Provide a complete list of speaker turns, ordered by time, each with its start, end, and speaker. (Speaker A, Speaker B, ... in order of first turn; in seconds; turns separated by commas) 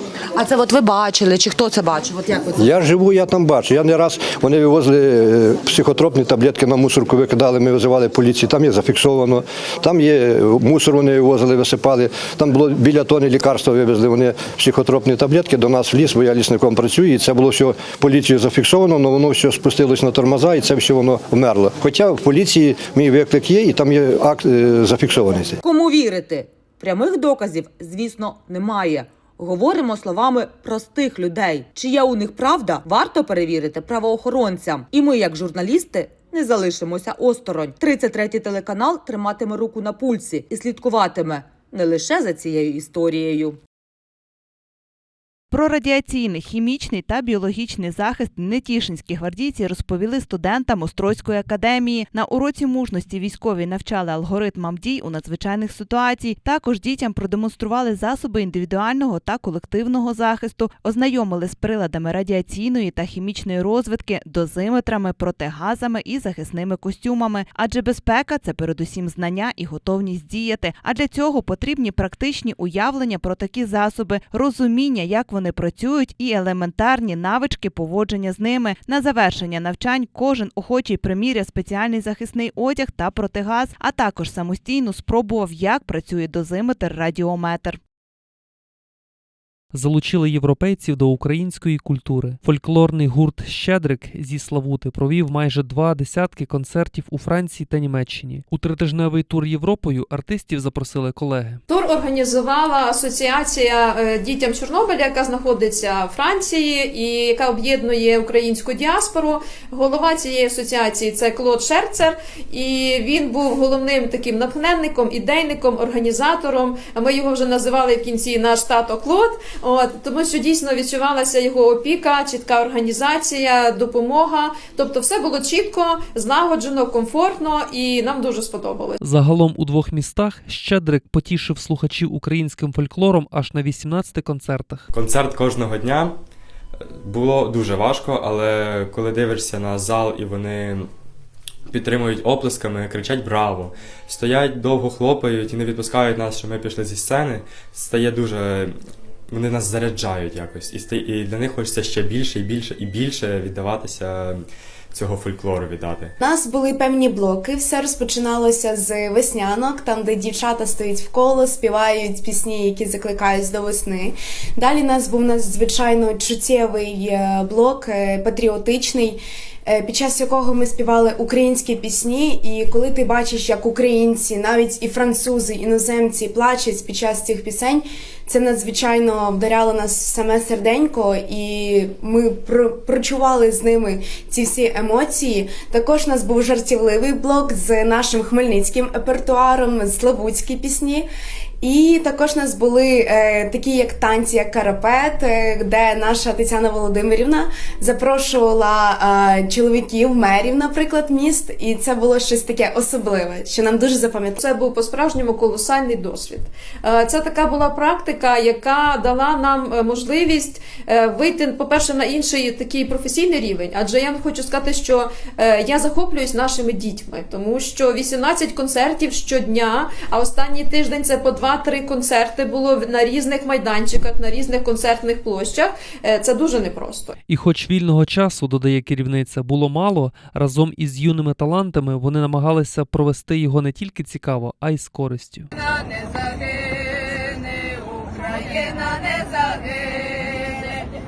Speaker A: 0.3-2.6, Speaker B: 2.5-25.6, Speaker A: 25.6-43.6, Speaker C: 45.5-87.8, Speaker D: 89.7-101.6, Speaker E: 101.7-129.0, Speaker D: 129.0-134.9, Speaker F: 134.9-136.2, Speaker F: 137.0-140.9, Speaker F: 141.7-156.1, Speaker G: 156.2-169.1, Speaker G: 169.7-191.0, Speaker G: 191.6-204.3, Speaker E: 204.3-227.1, Speaker D: 227.3-235.5